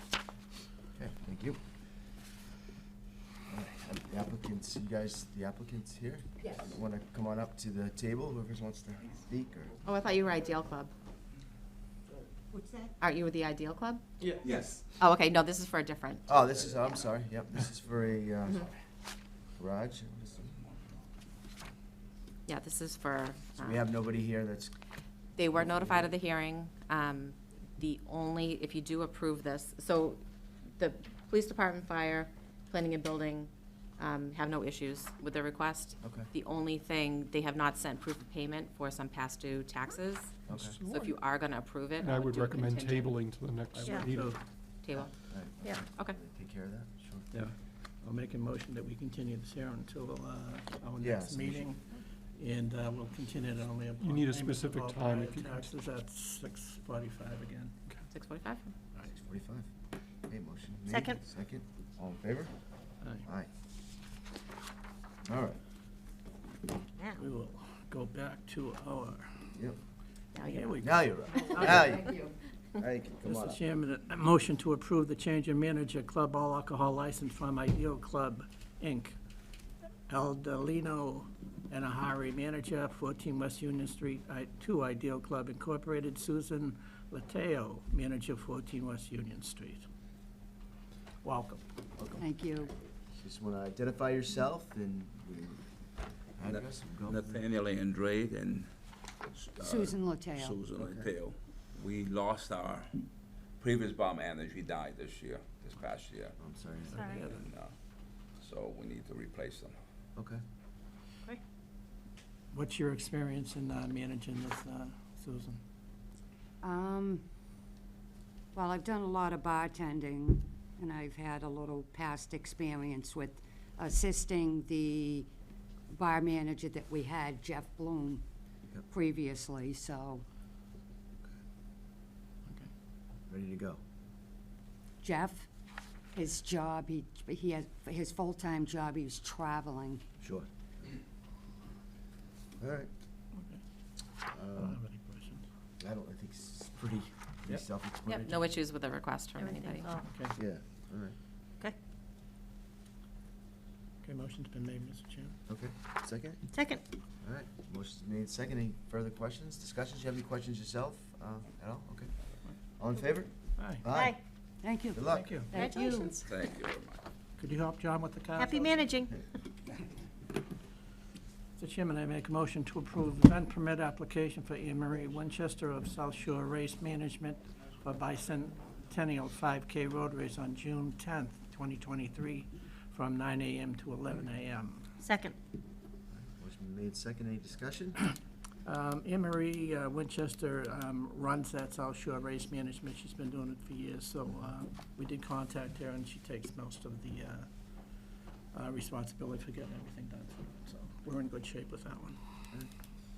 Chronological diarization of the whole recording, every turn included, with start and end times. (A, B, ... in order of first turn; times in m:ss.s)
0:00.9-0:01.6 A
0:03.5-0:09.8 A
0:09.8-0:10.9 B
0:12.5-0:12.9 C
0:13.0-0:14.0 B
0:14.4-0:14.8 D
0:15.0-0:17.0 B
0:16.3-0:18.7 A
0:16.5-0:16.9 D
0:19.6-0:20.6 A
0:22.5-0:23.8 B
0:23.6-0:24.8 A
0:25.4-0:30.2 B
0:25.5-0:26.1 A
0:30.8-0:40.3 B
0:36.0-0:36.3 A
0:40.5-0:40.8 A
0:40.5-0:41.2 E
0:40.9-0:43.1 B
0:42.0-0:44.4 E
0:43.7-0:44.4 F
0:44.8-0:46.2 B
0:44.9-0:47.3 A
0:47.3-0:57.7 F
0:51.0-0:51.7 A
0:54.0-0:55.7 E
0:58.1-0:58.7 B
0:59.1-0:59.7 A
1:00.3-1:02.5 A
1:00.9-1:01.2 G
1:03.2-1:03.5 A
1:05.2-1:05.6 A
1:07.2-1:09.4 F
1:10.3-1:12.3 B
1:10.4-1:10.9 F
1:10.8-1:12.2 A
1:11.5-1:12.0 F
1:12.8-1:13.6 A
1:13.2-1:19.2 F
1:20.1-1:29.8 F
1:31.2-1:31.6 F
1:32.0-1:32.2 A
1:32.2-1:32.7 C
1:33.1-1:35.6 A
1:36.4-1:37.4 A
1:36.4-1:38.7 D
1:39.2-1:43.1 D
1:39.6-1:40.6 C
1:40.7-1:41.1 A
1:43.6-1:46.4 D
1:46.4-1:47.1 A
1:46.9-1:47.3 G
1:47.0-1:47.3 F
1:47.1-1:47.7 D
1:48.4-1:49.8 D
1:52.5-1:55.6 F
1:56.6-1:57.2 C
1:58.5-2:05.3 C
2:05.9-2:08.2 C
2:08.9-2:10.2 C
2:13.3-2:13.8 A
2:15.0-2:15.5 C
2:16.1-2:20.0 C
2:20.2-2:20.5 A
2:22.6-2:22.9 A
2:23.3-2:23.6 F
2:24.3-2:24.8 A
2:24.5-2:25.4 F
2:25.8-2:28.5 A
2:28.0-2:29.9 B
2:29.4-2:30.0 G
2:30.0-2:30.4 F
2:30.3-2:31.1 A
2:34.0-2:35.3 F
2:35.5-2:36.4 A
2:36.5-2:36.8 G
2:37.2-2:42.1 A
2:42.8-2:44.2 A
2:43.6-2:43.8 F
2:43.9-2:44.2 G
2:44.6-2:46.2 C
2:44.7-2:45.5 A
2:45.0-2:45.5 F
2:45.5-2:46.2 G
2:46.1-2:47.0 D
2:47.4-2:48.8 F
2:48.4-2:49.2 G
2:51.6-3:04.9 F
3:05.0-3:05.3 G
3:06.1-3:08.0 A
3:08.6-3:17.5 F
3:18.5-3:22.2 F